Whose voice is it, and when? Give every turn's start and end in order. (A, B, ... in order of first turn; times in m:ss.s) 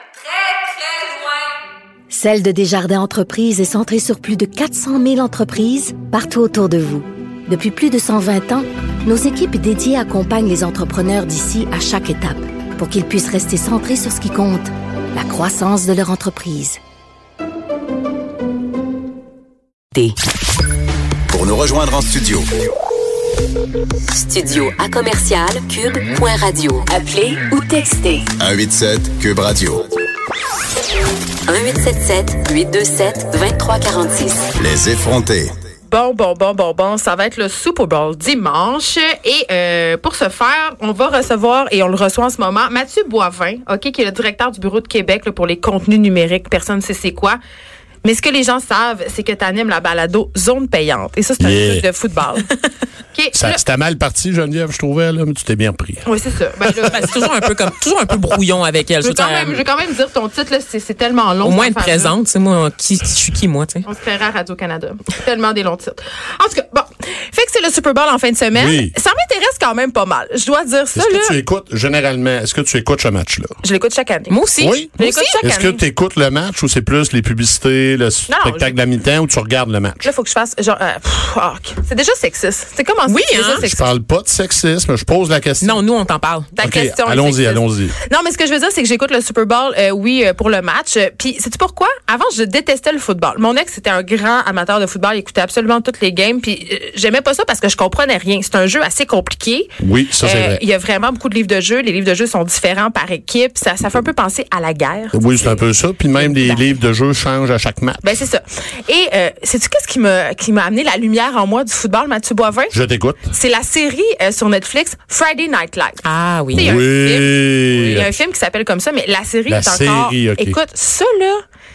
0:02.1-0:16.8 A
0:21.3-0:22.5 B
0:24.2-0:28.2 C
0:28.4-0:29.9 B
0:31.5-0:34.5 C
0:34.6-0:35.5 B
0:35.9-0:47.4 D
0:48.0-0:52.5 D
0:51.4-0:51.9 E
0:53.1-0:53.6 D
0:53.3-0:56.1 E
0:56.0-0:57.0 D
0:56.9-0:59.6 F
0:59.0-1:02.1 D
1:01.4-1:03.8 F
1:03.9-1:11.4 D
1:08.5-1:09.0 E
1:11.0-1:13.6 E
1:13.6-1:14.4 D
1:14.3-1:15.4 F
1:14.6-1:20.1 E
1:15.0-1:15.8 D
1:18.3-1:18.8 D
1:20.0-1:23.9 D
1:23.1-1:23.6 F
1:23.6-1:25.8 E
1:25.6-1:26.5 F
1:26.6-1:45.6 D
1:26.6-1:28.0 E
1:39.8-1:40.6 E
1:45.1-1:48.2 E
1:46.2-1:46.6 D
1:48.0-1:52.7 D
1:52.7-1:53.3 E
1:53.3-1:56.0 D
1:56.0-1:56.9 F
1:56.5-1:58.2 E
1:56.6-2:01.4 D
1:57.7-1:58.0 F
1:59.5-2:00.6 E